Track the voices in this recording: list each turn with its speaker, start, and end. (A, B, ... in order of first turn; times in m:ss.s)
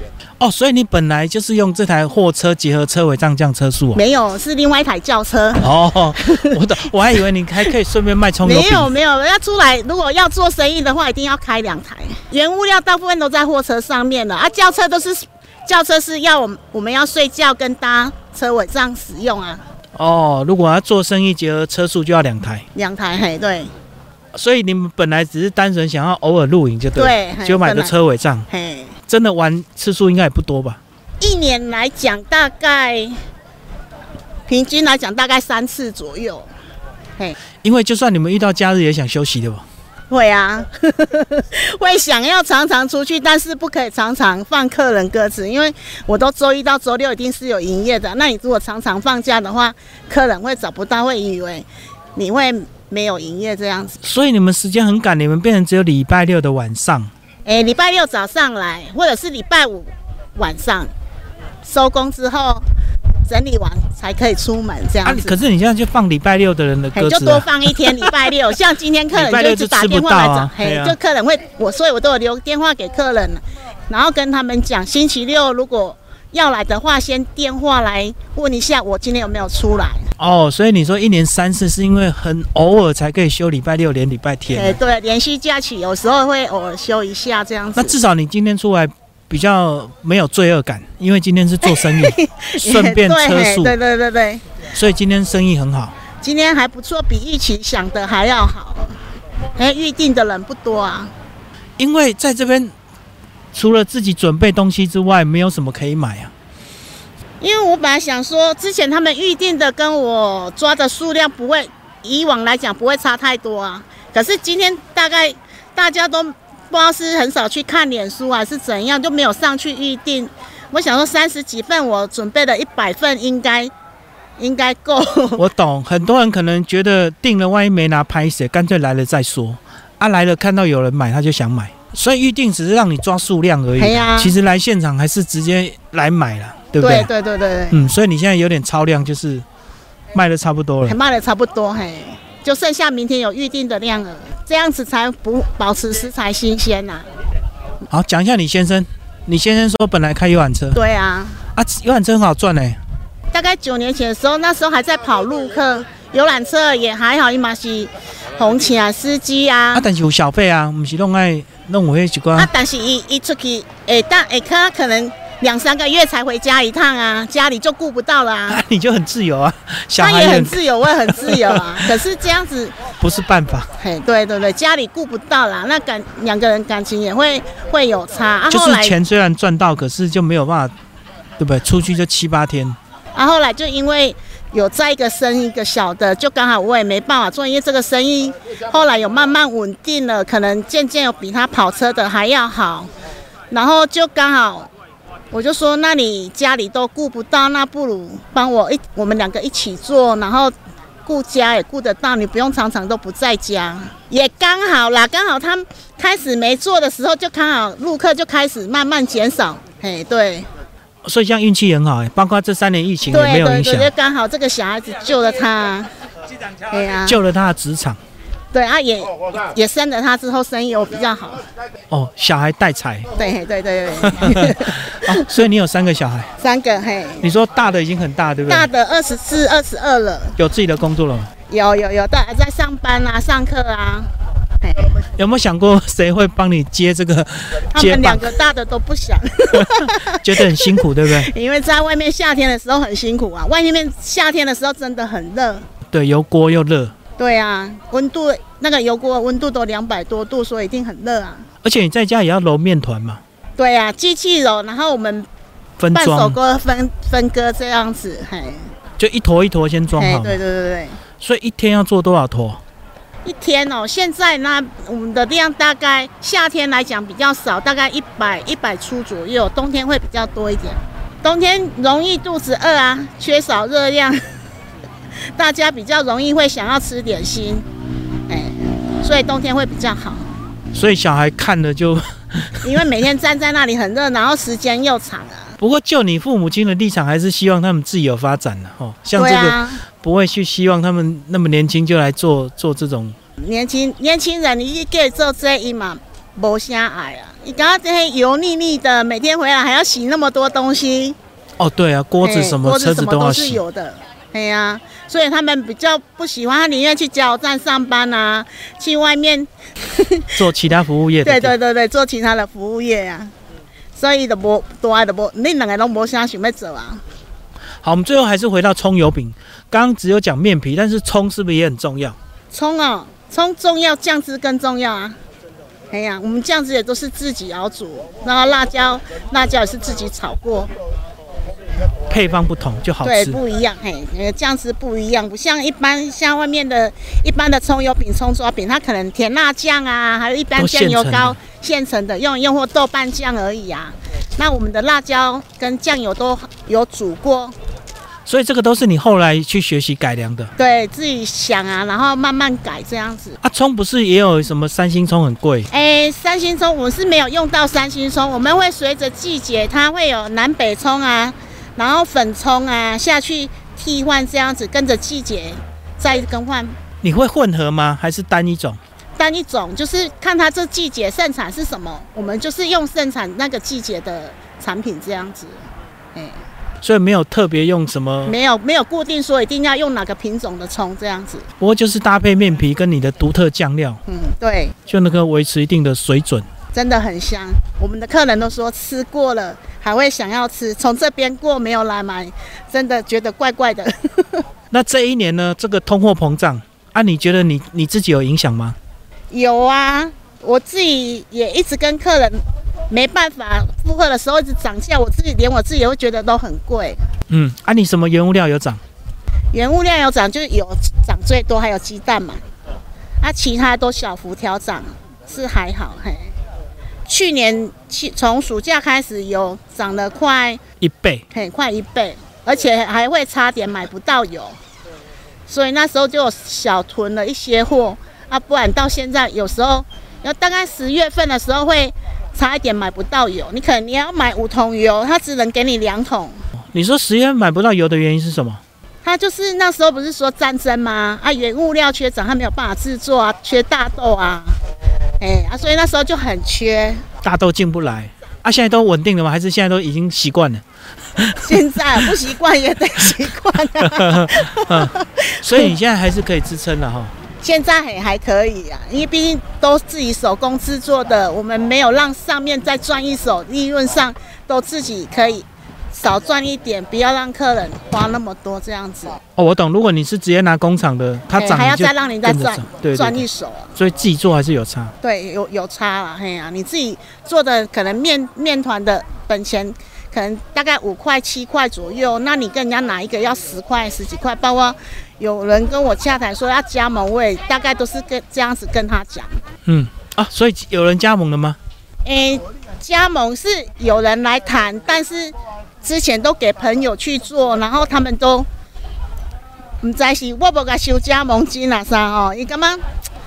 0:00.4-0:04.0 A
0:03.9-0:06.6 B
0:05.6-0:08.9 A
0:08.4-0:19.6 B
0:20.0-0:22.6 A
0:22.7-0:23.7 B
0:24.3-0:28.4 A
0:26.9-0:27.9 B
0:28.5-0:28.9 B
0:29.1-0:30.8 A
0:31.2-0:33.2 B
0:34.5-0:36.5 B
0:37.6-0:39.6 A
0:40.1-0:54.0 B
0:54.0-0:57.1 A
0:57.4-1:00.9 B
1:01.6-1:02.6 B
1:03.3-1:05.4 B
1:05.0-1:08.1 A
1:06.9-1:20.1 B
1:09.1-1:11.0 A
1:20.2-1:24.8 A
1:24.5-1:28.0 B
1:27.8-1:33.7 A
1:31.6-1:34.4 B
1:34.7-1:35.9 A
1:36.2-1:38.9 B
1:39.5-1:41.1 B
1:41.8-1:42.7 A
1:43.5-1:46.3 A
1:47.4-2:03.7 B
2:04.4-2:05.4 B
2:05.4-2:17.1 A
2:13.8-2:14.3 B
2:16.8-2:17.8 B
2:17.7-2:19.4 A
2:20.1-2:21.0 A
2:20.8-2:27.1 B
2:27.9-2:30.8 A
2:30.7-2:31.4 B
2:31.6-2:32.8 A
2:33.3-2:39.8 B
2:39.7-2:42.5 A
2:42.4-2:48.6 B
2:48.5-2:51.8 A
2:50.0-2:52.8 B
2:53.0-2:53.7 A
2:53.8-2:59.0 B
2:58.5-3:00.7 A
3:01.4-3:02.8 A
3:03.1-3:12.9 B
3:13.5-3:14.7 B
3:15.3-3:20.5 B
3:21.0-3:30.5 B
3:31.0-3:33.9 A
3:33.1-3:35.9 B
3:36.7-3:37.2 B
3:37.0-3:38.0 A
3:38.5-3:41.4 B
3:41.9-3:43.1 A
3:43.2-3:45.3 B
3:44.0-3:46.3 A
3:46.4-3:47.2 B
3:47.2-3:48.7 A
3:48.5-3:50.4 B
3:50.4-3:51.3 A
3:51.5-3:54.1 B
3:54.6-3:55.0 B
3:55.2-3:58.3 A
3:57.7-4:05.7 B
3:59.5-4:01.3 A
4:05.9-4:06.9 A
4:07.2-4:11.4 B
4:11.6-4:13.2 A
4:13.6-4:15.3 B
4:15.8-4:16.4 A
4:15.9-4:18.6 B
4:19.0-4:20.4 A
4:19.9-4:21.0 B
4:21.2-4:22.6 A
4:23.2-4:34.2 B
4:35.3-4:37.6 B
4:38.3-4:40.3 B
4:40.7-4:42.7 A
4:42.6-4:45.6 B
4:45.6-4:53.2 A
4:49.1-4:49.8 B
4:53.4-5:01.2 B
5:01.6-5:03.6 A
5:02.2-5:10.3 B
5:10.4-5:11.5 A
5:11.2-5:13.3 B
5:14.0-5:17.0 B
5:17.8-5:22.2 A
5:22.5-5:25.2 B
5:25.9-5:30.7 B
5:32.1-5:33.4 A
5:33.0-5:47.5 B
5:40.6-5:41.4 A
5:48.2-5:50.5 A
5:50.6-5:53.4 B
5:53.4-5:55.7 A
5:55.7-6:06.8 B
6:07.0-6:08.8 A
6:09.2-6:15.6 B
6:16.8-6:18.4 A
6:18.2-6:21.5 B
6:21.6-6:24.0 A
6:24.1-6:24.8 B
6:24.9-6:26.4 A
6:26.7-6:34.4 B
6:34.7-6:38.8 A
6:39.3-6:47.0 B
6:47.3-6:48.8 A
6:49.5-6:52.4 B
6:53.2-6:56.3 B
6:57.1-7:00.6 B
7:00.8-7:01.2 A
7:01.3-7:04.6 B
7:05.5-7:16.4 B
7:16.7-7:18.6 A
7:19.0-7:24.6 B
7:25.2-7:27.0 B
7:27.2-7:30.6 A
7:31.2-7:31.8 A
7:31.4-7:35.7 B
7:33.8-7:37.1 A
7:37.4-7:49.2 B
7:49.4-7:53.2 A
7:51.3-7:53.7 B
7:53.8-7:54.9 A
7:55.0-8:09.4 B
8:09.6-8:11.6 A
8:12.0-8:18.5 B
8:19.8-8:22.8 B